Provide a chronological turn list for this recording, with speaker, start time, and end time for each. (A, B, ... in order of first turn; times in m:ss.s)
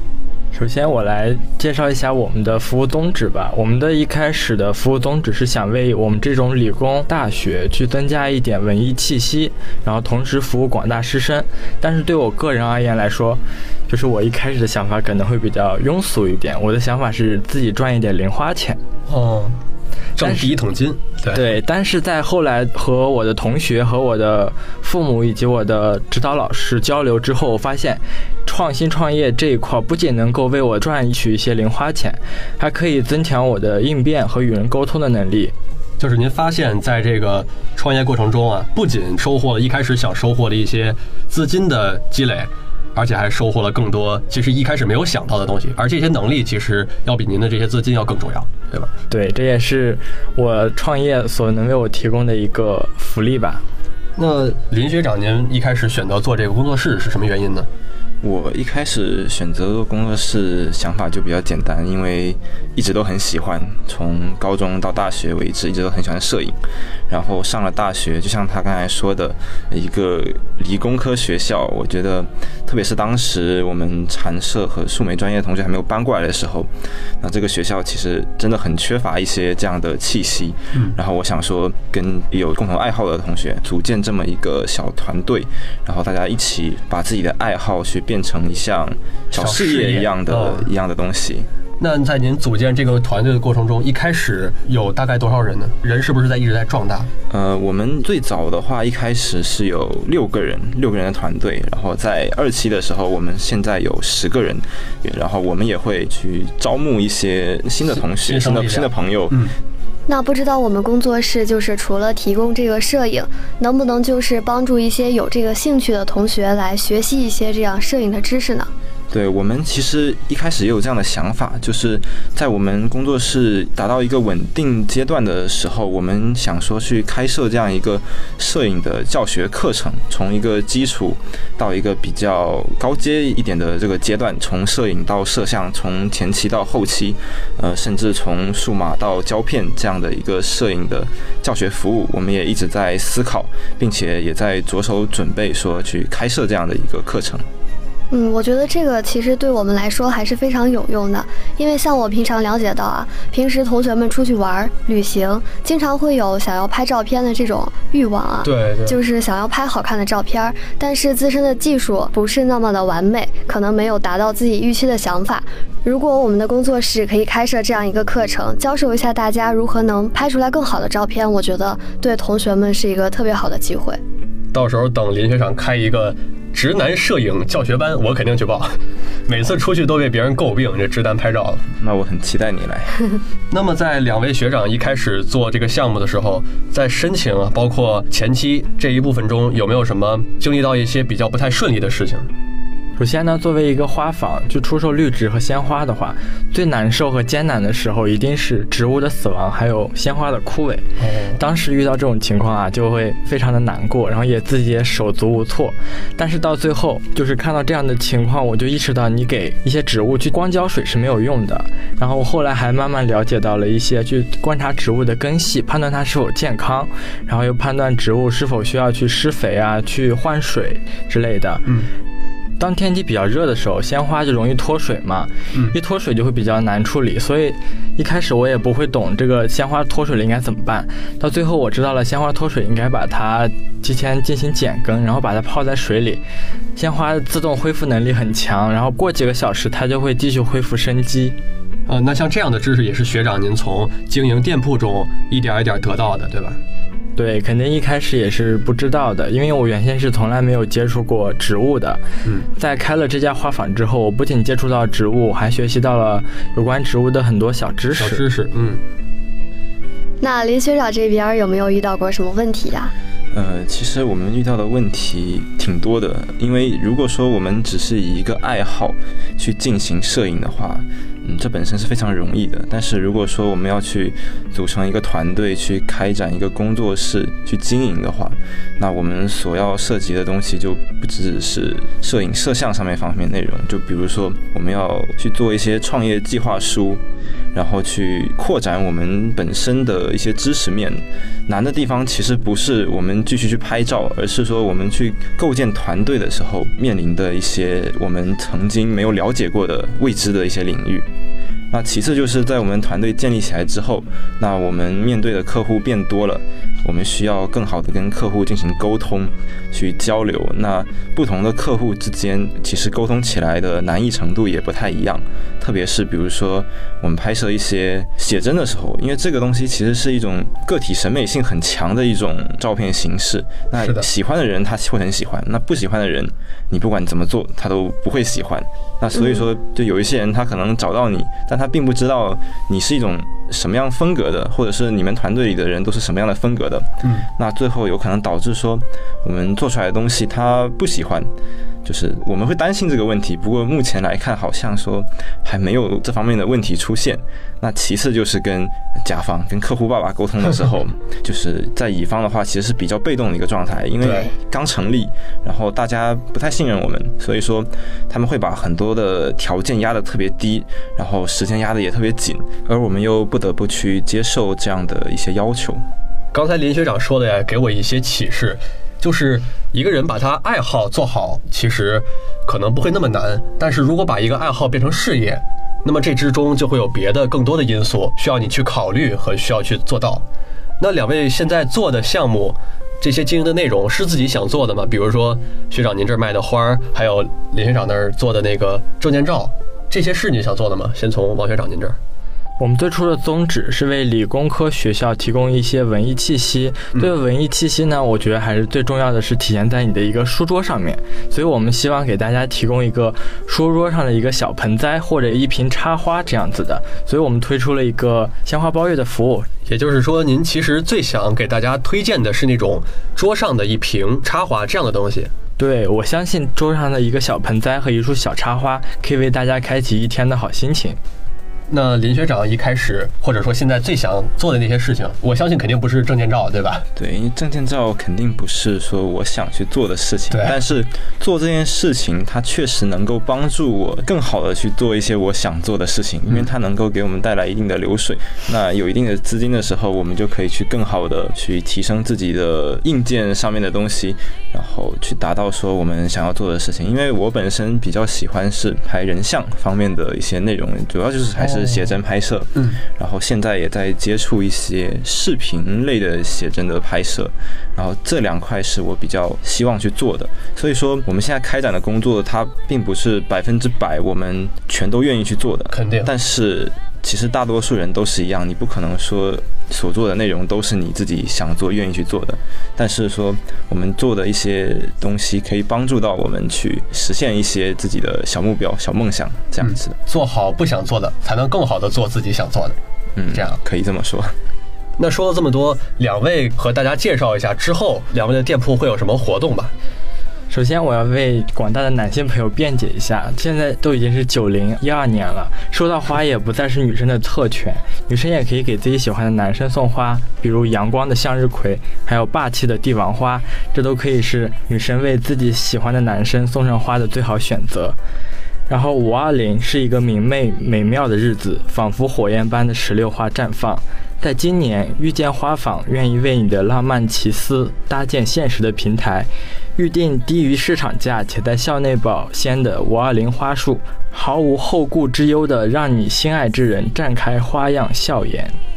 0:00.5-0:18.8 A
0:19.1-0:19.6 B
0:20.2-0:21.5 B
0:20.2-0:20.5 A
0:21.3-0:35.5 A
0:36.0-0:48.9 B
0:49.1-0:53.6 A
0:54.2-0:57.7 B
0:58.2-1:06.6 C
1:07.1-1:16.7 C
1:17.2-1:31.5 C
1:29.3-1:30.7 B
1:31.8-1:37.1 B
1:37.3-1:49.4 C
1:48.0-1:49.5 B
1:50.1-1:58.7 D
1:59.1-2:27.4 C
2:28.1-2:54.0 D
2:38.4-2:39.0 B
2:54.5-3:01.6 B
3:01.8-3:03.0 C
3:03.5-3:12.3 B
3:13.0-3:20.8 A
3:21.0-3:21.4 B
3:21.4-3:41.6 A
3:42.6-3:56.2 A
3:56.8-4:01.4 A
4:01.9-4:06.6 B
4:07.2-4:12.0 A
4:12.6-4:18.2 A
4:18.0-4:18.8 B
4:20.2-4:22.9 D
4:23.3-4:47.0 C
4:47.5-5:01.0 C
5:01.7-5:41.3 C
5:23.8-5:24.1 B
5:29.1-5:29.4 D
5:41.8-6:05.8 C
5:54.0-5:54.3 B
6:06.3-6:20.2 B
6:20.8-6:32.0 B
6:32.6-6:49.5 A
6:49.7-6:55.3 B
6:55.6-7:01.0 A
7:01.7-7:06.8 B
7:07.0-8:00.0 C
7:10.3-7:10.6 B
7:31.4-7:31.9 B
7:32.5-7:32.8 B
7:45.7-7:46.1 B
7:59.6-8:02.8 B
8:03.2-8:04.4 C
8:03.3-8:03.6 B
8:05.0-8:09.7 B
8:10.5-8:28.0 A
8:28.7-8:48.6 A